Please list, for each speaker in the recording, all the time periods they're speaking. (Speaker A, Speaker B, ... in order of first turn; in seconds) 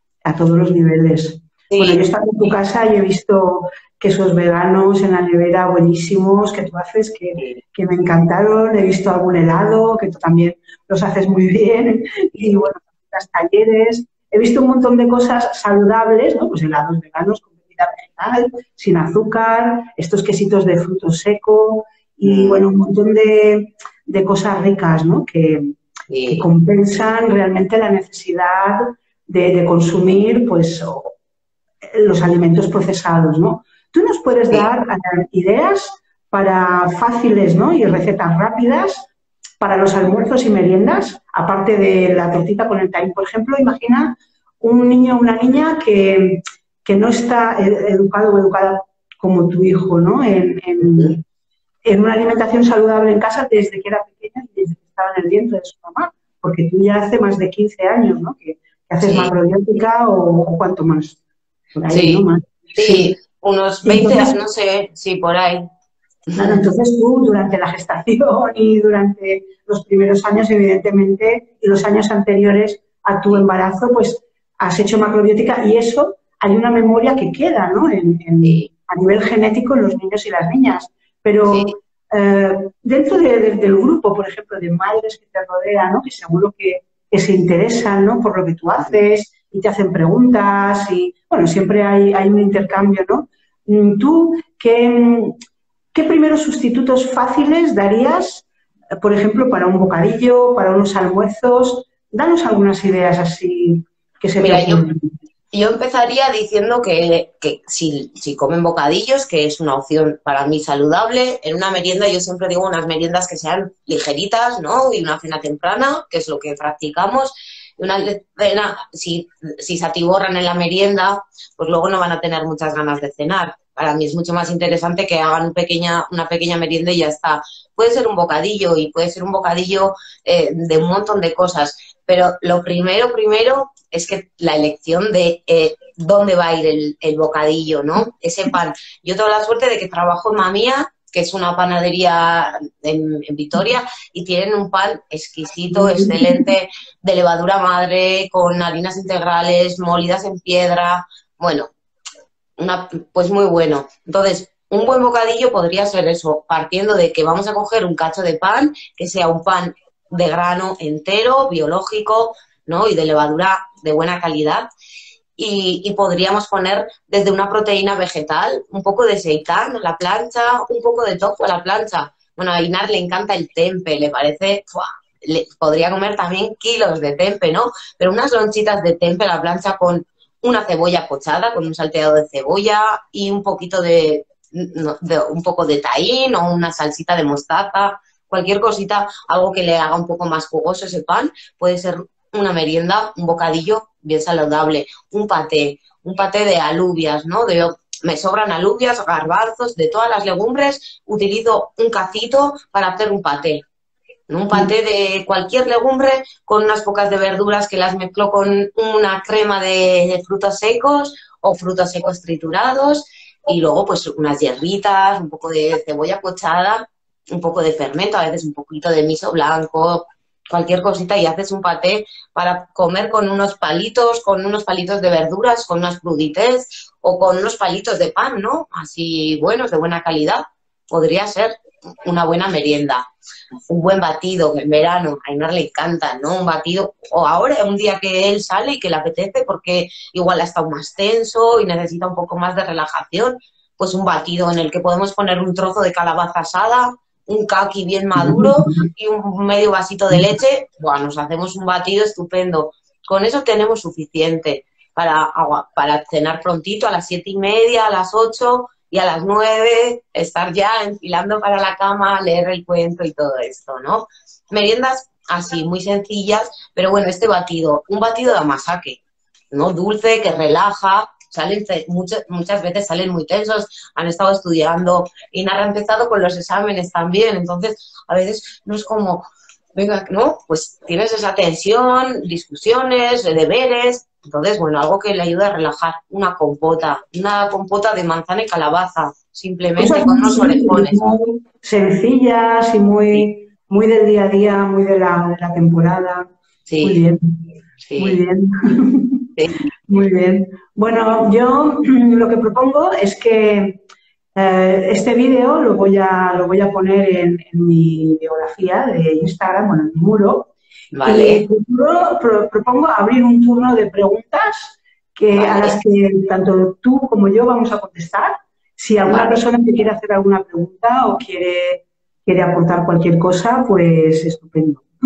Speaker A: 0.2-25.7, 26.3-31.1, 31.9-39.1, 39.6-51.2, 51.8-61.2, 61.7-63.1, 63.8-64.3, 66.3-95.3, 95.9-98.5, 99.0-105.1, 145.7-146.4, 248.2-248.9, 289.8-296.3, 296.8-297.2, 298.0-299.3, 299.9-303.8, 304.4-310.5, 311.0-324.8
Speaker B: 1.7-2.0, 22.2-22.6, 26.1-26.5, 59.0-59.3, 61.9-65.7, 66.3-66.6, 78.4-78.7, 81.5-81.7, 104.4-104.8, 105.5-151.7, 152.6-164.7, 165.4-203.7, 204.3-233.0, 233.7-269.0, 269.5-291.1, 296.7-297.0, 297.8-298.2, 310.9-311.4, 315.3-315.8, 319.1-319.4